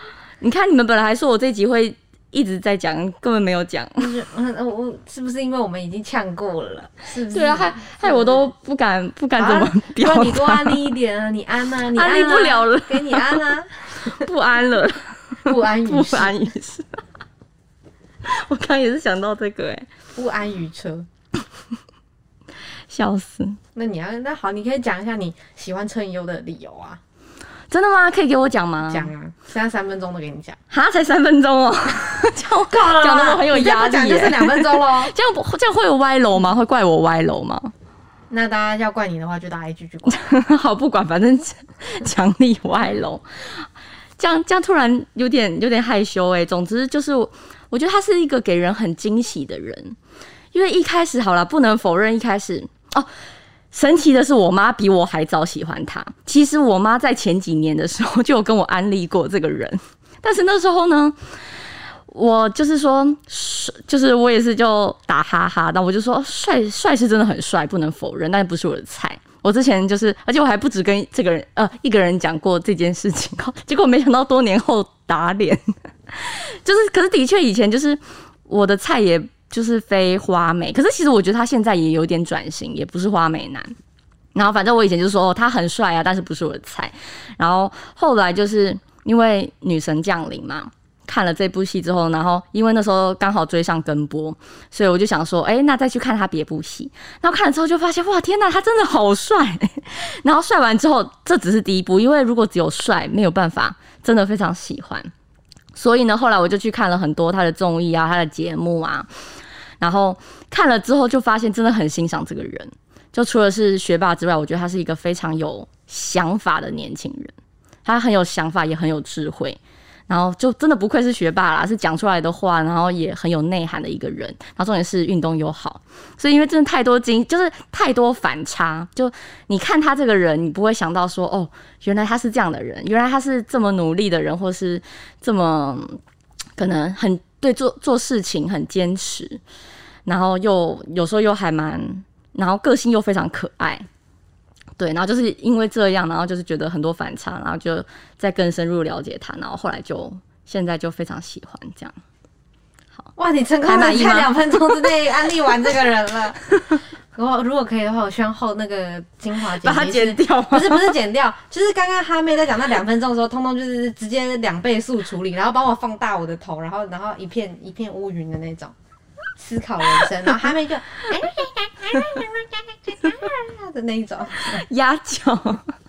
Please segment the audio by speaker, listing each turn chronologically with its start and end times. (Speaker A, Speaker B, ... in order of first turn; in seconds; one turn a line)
Speaker A: 0.4-4.1
Speaker B: 4.0-8.5
Speaker A: 7.3-10.9
Speaker B: 9.4-14.3
Speaker A: 11.9-13.4
Speaker A: 14.0-17.0
Speaker B: 15.4-16.4
Speaker A: 18.2-19.9
Speaker B: 20.1-21.1
Speaker A: 22.9-23.6
Speaker B: 23.8-27.0
Speaker A: 27.7-29.1
Speaker B: 28.9-30.6
Speaker A: 30.7-37.7
Speaker B: 32.7-35.1
Speaker B: 38.3-40.2
Speaker A: 40.1-50.0
Speaker A: 50.5-53.1
Speaker A: 53.7-61.2
Speaker A: 62.1-83.8
Speaker A: 84.3-105.1
Speaker A: 105.8-109.1
Speaker A: 109.8-117.3
Speaker A: 117.8-136.0
Speaker A: 136.6-139.4
Speaker A: 140.1-143.9
Speaker A: 144.8-152.0
Speaker B: 153.2-168.7
Speaker A: 153.6-154.9
Speaker A: 159.6-160.9
Speaker B: 169.4-174.6
Speaker A: 174.4-175.7